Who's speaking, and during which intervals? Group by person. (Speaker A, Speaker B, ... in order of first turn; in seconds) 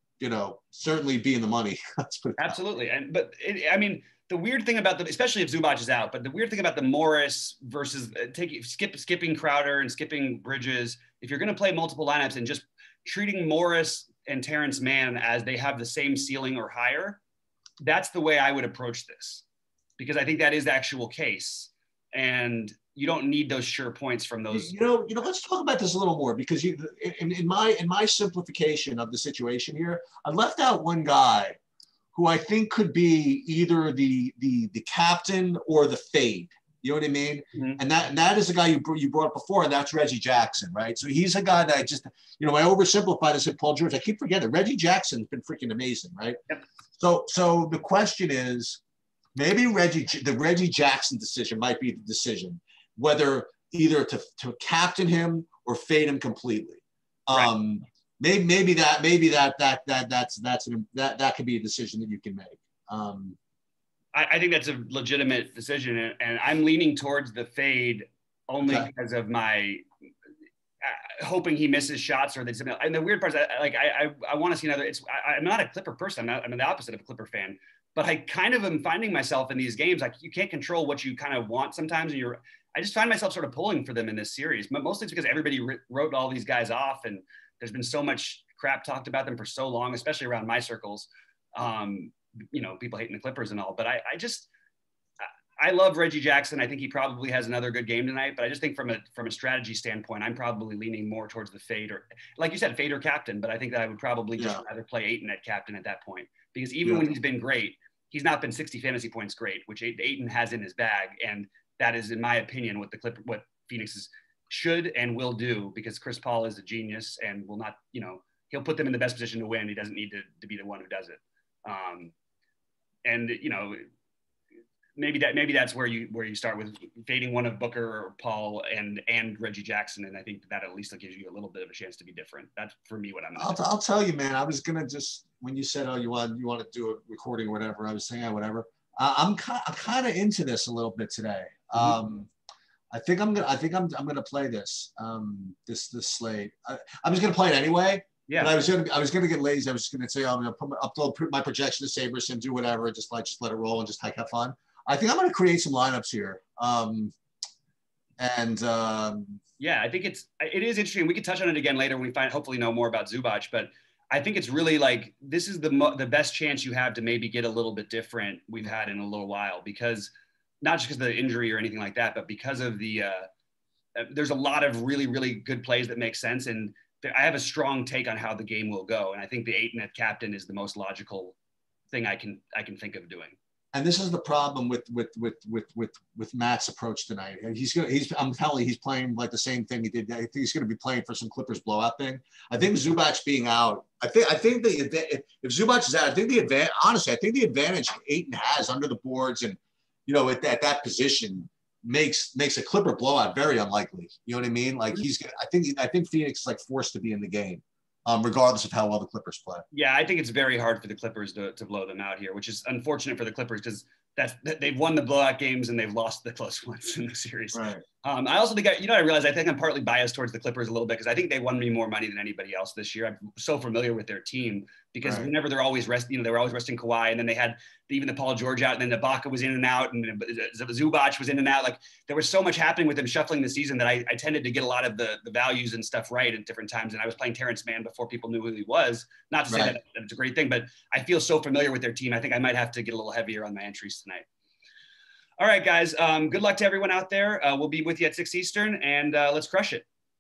Speaker A: 0.2-2.6, 24.5-31.6, 32.1-46.4, 47.0-48.8, 49.4-63.4, 68.6-68.9, 104.4-104.6, 106.8-107.1, 133.4-142.3, 142.9-157.1, 158.2-159.4, 183.7-209.6, 217.5-217.8, 225.0-225.3, 239.5-239.8
Speaker B: 2.4-17.2, 17.8-19.4, 20.0-24.7, 37.5-37.8, 64.1-69.8, 70.8-94.5, 95.2-122.1, 123.0-123.8, 125.0-133.6, 148.3-148.6, 159.6-173.3, 174.0-181.4, 181.9-183.4, 209.7-244.3, 245.4-249.8